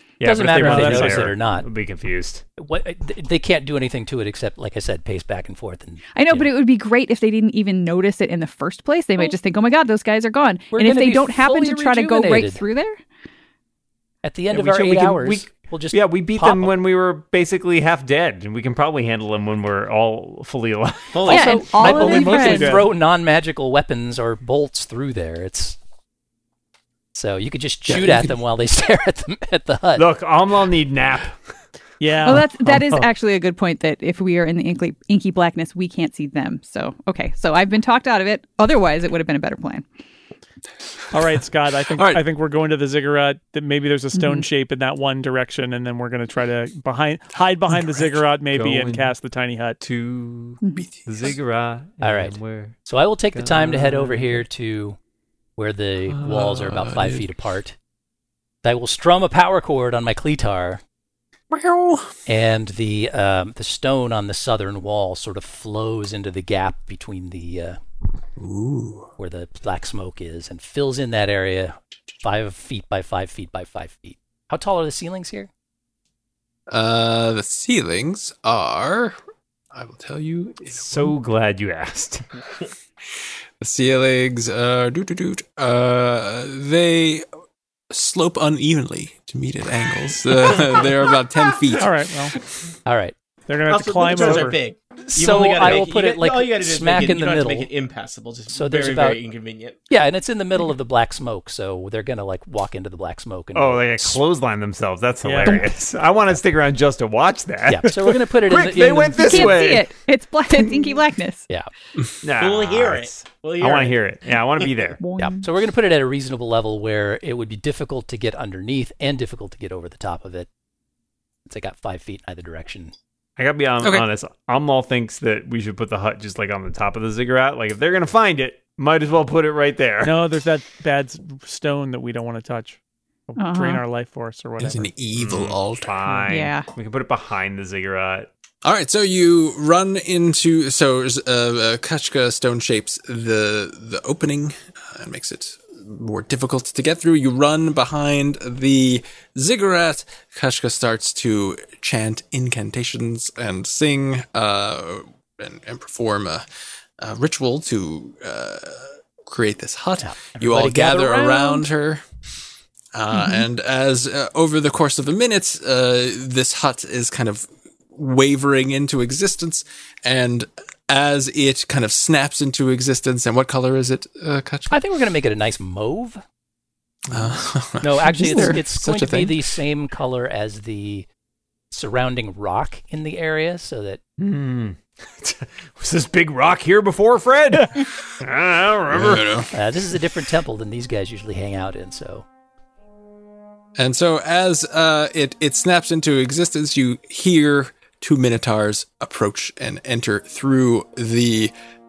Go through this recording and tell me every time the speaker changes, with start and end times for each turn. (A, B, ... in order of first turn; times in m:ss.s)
0:00.2-0:02.4 A
0:00.2-0:01.7 B
0:00.5-0:01.3 C
0:02.6-0:06.5 B
0:06.1-0:13.0 D
0:10.7-0:12.6 B
0:14.2-0:16.7 B
0:14.5-0:21.3 A
0:21.1-0:22.5 E
0:21.3-0:22.7 D
0:21.3-0:25.8 B
0:21.7-0:22.9 C
0:27.1-0:30.1 B
0:27.9-0:28.3 F
0:30.0-0:31.4 A
0:32.0-0:32.5 C
0:32.2-0:39.8 D
0:41.1-0:49.8 C
0:41.9-0:42.2 F
0:44.1-0:44.4 D
0:48.5-0:49.1 A
0:49.8-0:52.8 A
0:50.6-0:50.9 D
0:50.8-0:51.3 F
0:52.0-0:55.0 B
0:53.3-0:54.4 A
0:55.6-0:57.8 B
0:56.1-0:57.3 F
0:58.6-1:00.8 B
1:01.5-1:02.1 F
1:02.2-1:07.8 B
1:08.4-1:09.1 F
1:09.2-1:15.5 B
1:16.7-1:19.2 F
1:19.7-1:21.1 F
1:20.8-1:22.2 A
1:23.6-1:27.2 F
1:27.9-1:31.9 F
1:31.7-1:32.4 C
1:32.8-1:33.1 B
1:33.5-1:34.6 C
1:33.7-1:39.8 E
1:35.1-1:37.7 B
1:38.5-1:39.2 B
1:39.9-1:44.2 B
1:43.5-1:49.9 A
1:45.2-1:45.6 C
1:47.7-1:49.6 B
1:49.2-1:51.5 D
1:52.2-1:55.0 A
1:52.4-1:54.0 E
1:55.0-1:55.5 D
1:55.2-2:00.5 B
2:01.5-2:02.9 B
2:03.4-2:10.2 A
2:10.0-2:12.8 C
2:13.3-2:14.9 C
2:13.4-2:13.8 D
2:14.6-2:16.0 F
2:15.1-2:18.3 A
2:16.3-2:16.7 D
2:18.6-2:36.4 F
2:37.0-2:42.0 F
2:40.0-2:41.6 B
2:42.9-2:54.8 F
2:43.1-2:43.4 D
2:54.7-2:56.2 B
2:57.1-2:59.4 F
2:57.8-3:01.1 B
3:01.7-3:04.0 B
3:04.2-3:09.3 A
3:08.9-3:09.5 F
3:09.5-3:12.2 B
3:13.8-3:21.5 F